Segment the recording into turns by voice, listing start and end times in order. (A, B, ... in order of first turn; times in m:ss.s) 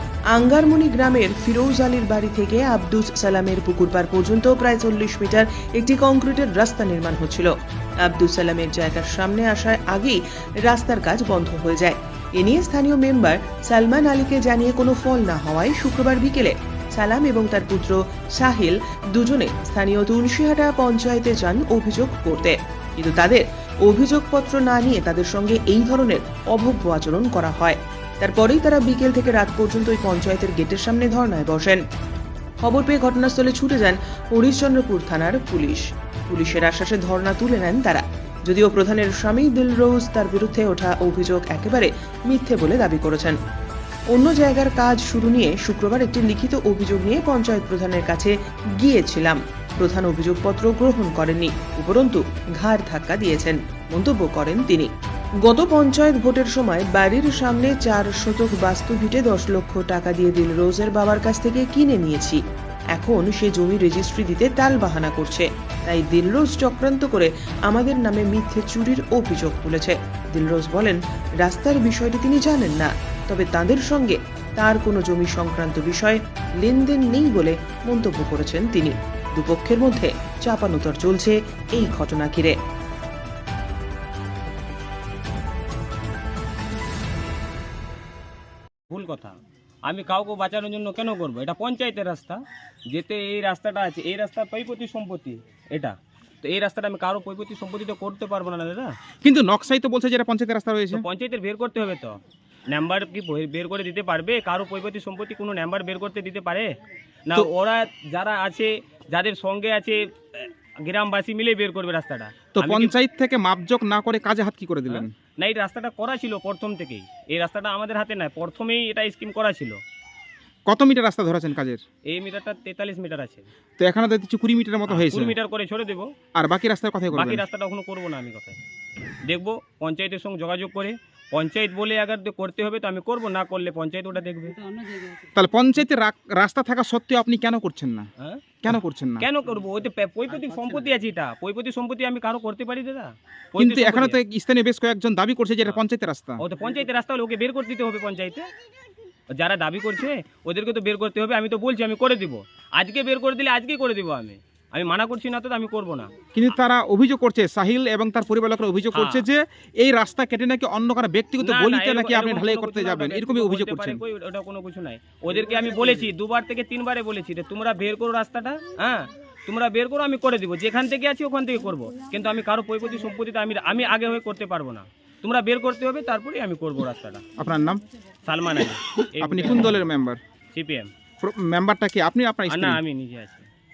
0:00.3-0:07.5 A
0:08.1-0:31.8 A
0:32.6-0:43.4 A
0:44.1-0:54.9 A
0:55.4-1:02.4 A
1:02.9-1:22.6 A
1:28.9-1:38.9 B
1:39.2-1:41.0 C
1:40.9-1:42.2 B
1:42.7-1:46.7 B
1:47.3-1:52.9 B
1:52.5-1:55.1 C
1:54.9-1:59.8 B
2:00.7-2:01.8 C
2:02.1-2:03.4 B
2:03.8-2:05.3 C
2:04.9-2:06.1 B
2:06.3-2:07.4 C
2:07.1-2:08.6 B
2:09.2-2:14.6 B
2:15.4-2:18.1 C
2:18.2-2:18.4 B
2:18.6-2:19.2 C
2:19.2-2:24.2 B
2:23.6-2:26.4 C
2:26.4-2:28.5 B
2:29.3-2:36.1 B
2:36.3-2:44.0 C
2:38.9-2:39.2 B
2:41.4-2:57.2 B
2:57.4-2:57.8 C
2:58.2-2:59.8 B
2:59.2-3:00.2 C
3:00.5-3:00.9 B
3:01.2-3:02.8 C
3:02.5-3:03.4 B